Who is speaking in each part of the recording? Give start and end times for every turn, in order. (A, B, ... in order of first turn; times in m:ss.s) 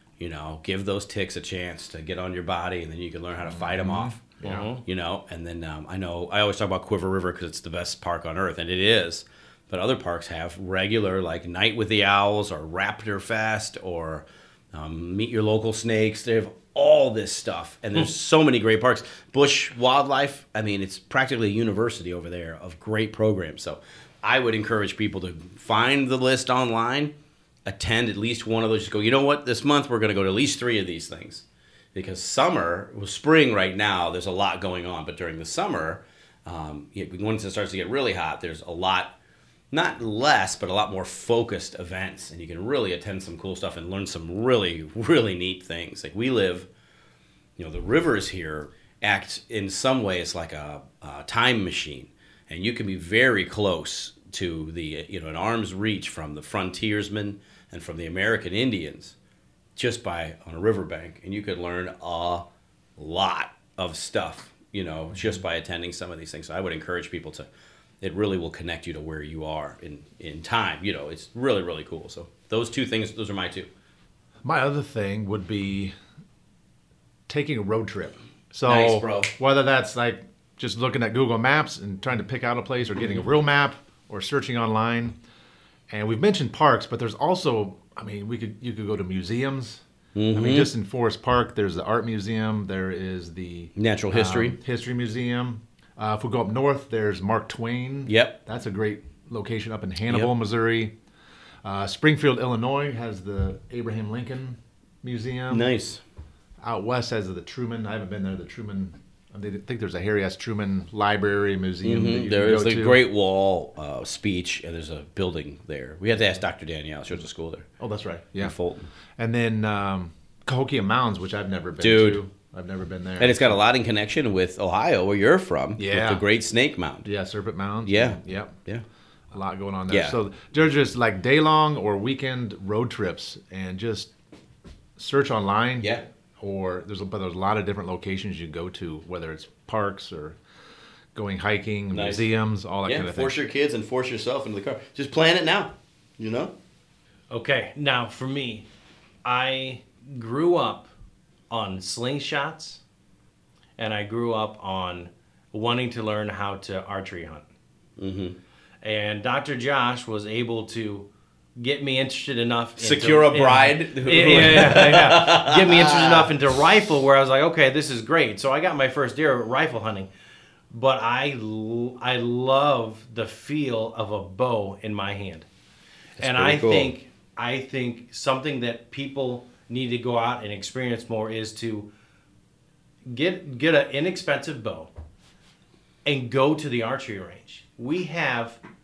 0:00.2-0:27.1 A
0:03.5-0:04.7 B
0:04.4-0:04.8 C
0:27.6-0:39.1 A
0:39.7-0:46.7 A
0:47.6-0:59.1 A
0:59.8-1:07.5 A
1:08.0-1:13.7 A
1:14.4-1:15.9 B
1:17.3-1:25.2 B
1:18.6-1:19.3 A
1:25.9-1:40.9 B
1:30.1-1:30.7 A
1:33.8-1:34.6 A
1:38.1-1:38.4 A
1:40.0-1:40.3 A
1:41.6-1:45.7 B
1:45.5-1:46.0 A
1:46.6-1:53.0 B
1:51.8-1:57.6 A
1:57.8-1:58.6 B
1:58.4-1:58.9 A
1:59.2-2:03.5 B
2:01.8-2:02.2 A
2:03.2-2:07.1 A
2:05.8-2:06.2 B
2:07.0-2:08.6 B
2:07.8-2:08.8 A
2:09.3-2:14.1 B
2:09.9-2:10.2 A
2:15.0-2:20.4 B
2:15.8-2:16.0 A
2:21.1-2:23.4 B
2:21.9-2:22.3 A
2:22.8-2:26.5 A
2:27.3-2:28.7 C
2:29.2-2:30.9 C
2:31.5-2:32.8 C
2:33.8-2:37.4 C
2:38.0-2:38.4 A
2:38.8-2:50.1 C
2:42.8-2:46.3 A
2:50.7-2:55.5 C
2:56.2-2:56.9 A
2:56.2-3:01.9 C
3:03.1-3:04.9 C
3:06.0-3:08.6 C